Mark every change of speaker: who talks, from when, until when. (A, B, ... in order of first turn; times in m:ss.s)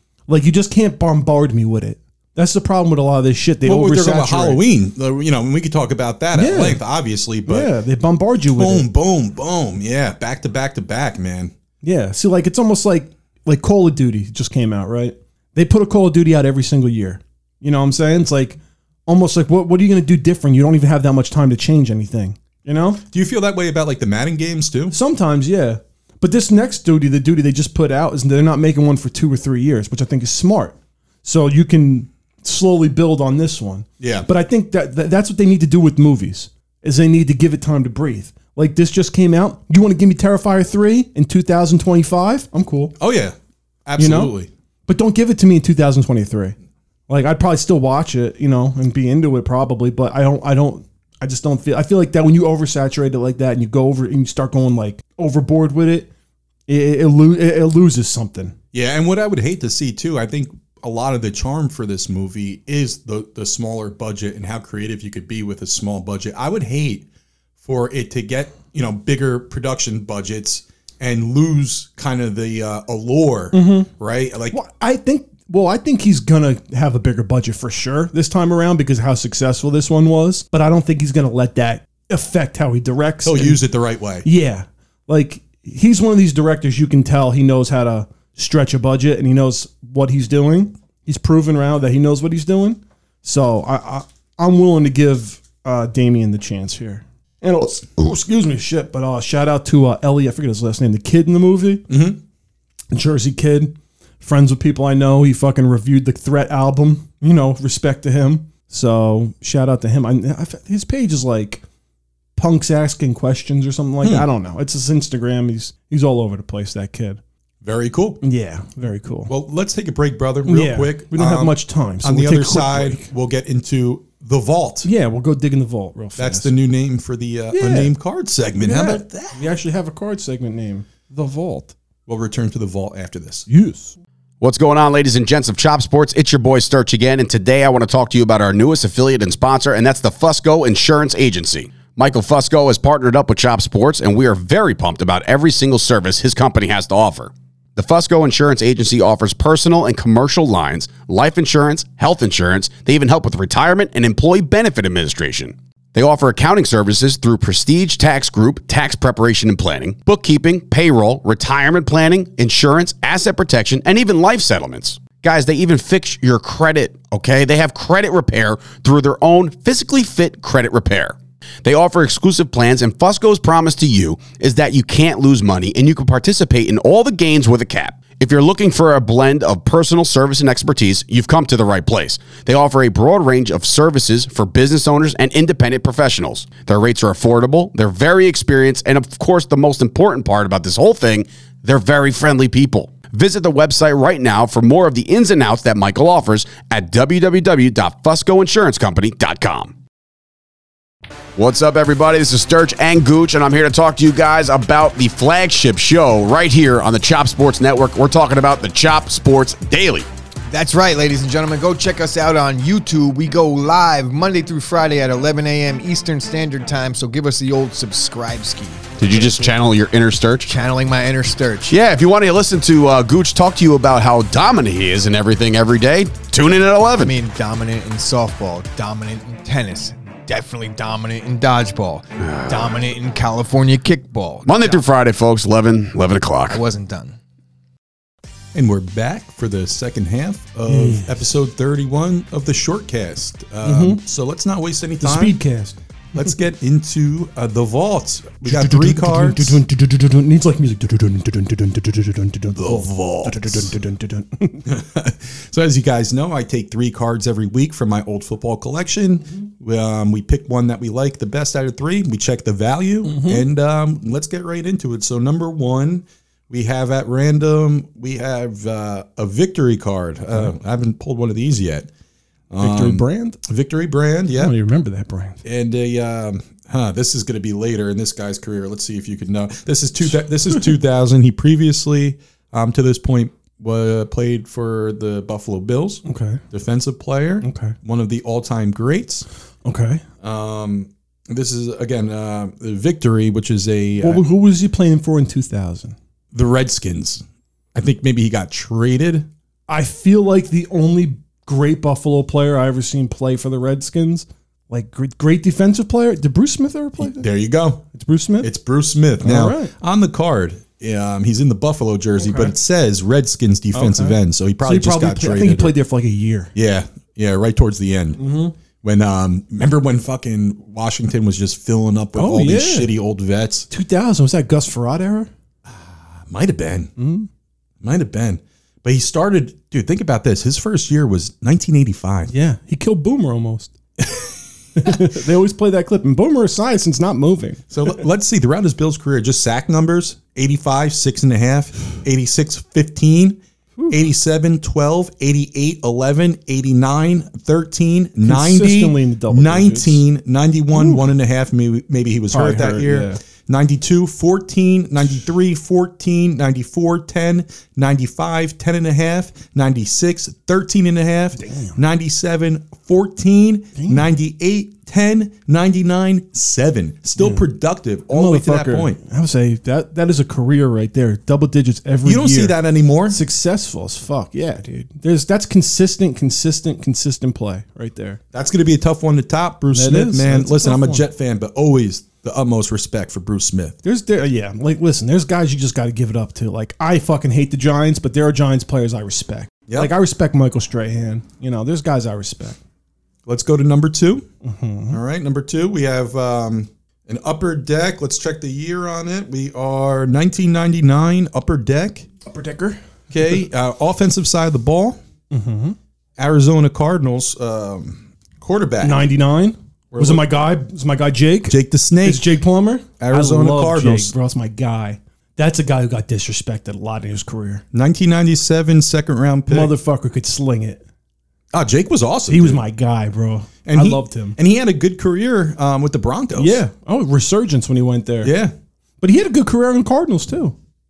0:00.3-0:04.6 A
0:03.6-0:07.7 B
0:06.3-0:06.8 A
0:07.5-0:08.9 A
0:08.5-0:11.5 B
0:11.8-0:23.0 A
0:23.1-0:24.9 B
0:24.9-0:42.9 A
0:34.0-0:34.3 B
0:43.0-0:44.5 B
0:44.0-0:46.6 A
0:47.1-0:56.1 A
0:56.7-0:58.6 A
0:58.7-1:07.1 B
1:07.6-1:14.6 B
1:13.5-1:13.9 A
1:14.5-1:23.6 A
1:23.2-1:24.2 B
1:24.2-1:41.9 A
1:41.9-1:42.2 B
1:42.9-1:51.6 A
1:52.4-1:57.2 A
1:57.6-1:58.2 B
1:58.2-1:59.3 A
1:59.3-2:04.9 B
2:00.4-2:03.1 A
2:04.8-2:06.5 A
2:06.2-2:09.4 B
2:07.5-2:07.9 A
2:08.6-2:11.7 A
2:12.1-2:13.4 B
2:13.5-2:14.0 A
2:14.4-3:19.7 C
3:21.4-3:30.1 C
3:30.5-3:39.3 D
3:39.0-3:40.5 C
3:40.4-3:41.8 D
3:41.7-3:47.1 C
3:47.0-3:54.8 D
3:52.2-3:52.8 C
3:54.4-3:56.6 C
3:56.5-3:57.2 D
3:58.5-4:05.4 B
4:00.7-4:01.1 A
4:03.6-4:04.0 A
4:05.0-4:06.3 A
4:06.1-4:09.6 B
4:08.4-4:14.6 A
4:12.6-4:13.7 B
4:14.6-4:31.9 B
4:23.0-4:23.4 A
4:32.5-4:34.5 B
4:32.6-4:33.4 A
4:34.3-4:35.4 A
4:35.4-4:49.2 B
4:40.1-4:40.7 A
4:46.0-4:46.4 A
4:47.4-4:47.7 A
4:49.6-4:50.0 A
4:50.2-4:54.2 B
4:54.0-4:55.9 A
4:56.3-4:57.2 B
4:57.7-4:59.3 B
4:59.7-5:07.3 A
5:07.0-5:07.8 B
5:07.9-5:08.5 A
5:08.4-5:15.8 B
5:09.2-5:09.7 A
5:12.2-5:12.5 A
5:13.7-5:16.5 A
5:16.5-5:18.2 B
5:18.2-5:18.5 A
5:18.8-5:23.7 B
5:22.1-5:22.9 A
5:23.7-5:25.3 A
5:25.6-5:26.9 B
5:27.0-5:27.3 A
5:27.8-5:32.3 B
5:32.3-5:33.7 A
5:34.0-5:35.2 B
5:34.8-5:38.0 A
5:37.7-6:09.0 B
5:48.2-5:50.0 A
5:50.7-5:51.0 A
5:52.3-5:53.2 A
6:01.4-6:01.8 A
6:03.7-6:04.0 A
6:07.2-6:07.5 A
6:08.1-6:18.2 A
6:12.0-6:13.2 B
6:18.3-6:23.8 B
6:19.7-6:21.0 A
6:23.8-6:32.6 A
6:29.7-6:29.9 B
6:33.2-6:34.3 B
6:34.4-6:35.0 A
6:34.9-6:42.1 B
6:42.2-6:42.8 A
6:43.1-6:45.0 B
6:45.3-6:45.8 A
6:46.2-6:49.1 B
6:48.8-6:57.6 A
6:49.9-6:50.3 B
6:51.4-6:52.3 B
6:53.0-6:54.1 B
6:57.7-6:59.7 B
6:59.5-7:00.8 A
7:01.5-7:02.6 B
7:02.3-7:04.4 A
7:03.6-7:06.6 B
7:06.4-7:08.3 A
7:08.2-7:08.5 B
7:09.0-7:10.5 A